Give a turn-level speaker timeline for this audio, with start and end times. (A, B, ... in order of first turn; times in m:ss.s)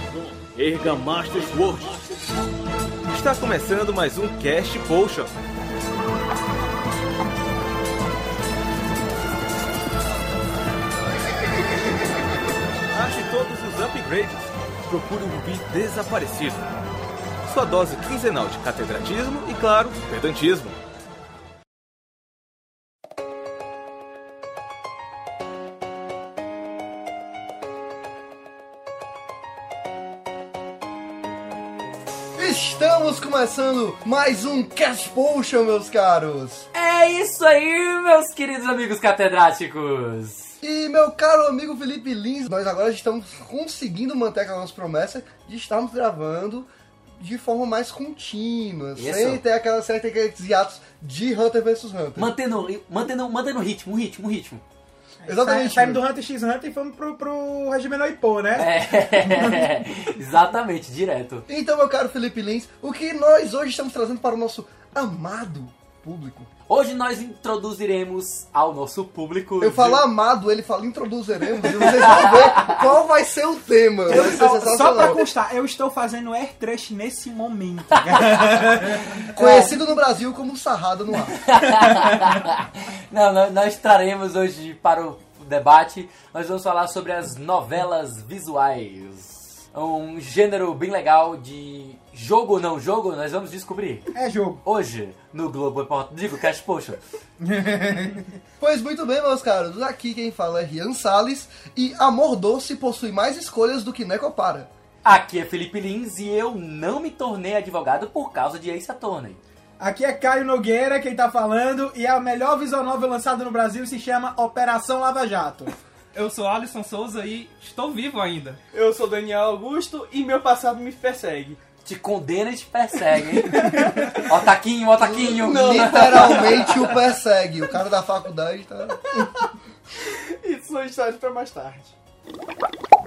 0:00.4-0:02.2 A
0:03.1-0:05.3 A
0:12.9-0:16.7 A
0:17.4-0:20.8 A
0:32.4-0:36.7 B
0:36.7-0:40.6 C
0:40.6-0:52.3 B
0:49.0-0:49.4 C
0:52.2-0:54.6 C
0:55.2-0:59.6 D
0:55.2-0:56.0 B
0:58.6-1:01.5 C
1:01.5-1:06.5 B
1:06.7-1:10.0 C
1:09.6-1:15.2 B
1:11.8-1:12.9 C
1:14.1-1:19.7 D
1:14.3-1:14.7 C
1:18.3-1:19.3 C
1:19.3-1:21.5 B
1:21.4-1:34.1 C
1:34.1-1:34.6 D
1:34.6-1:37.0 C
1:37.4-1:38.2 D
1:38.6-1:44.7 B
1:45.0-1:49.4 C
1:49.8-1:55.8 D
1:56.1-1:58.6 E
1:58.7-2:01.6 F
2:01.8-2:06.9 C
2:05.0-2:09.2 B
2:09.1-2:12.0 F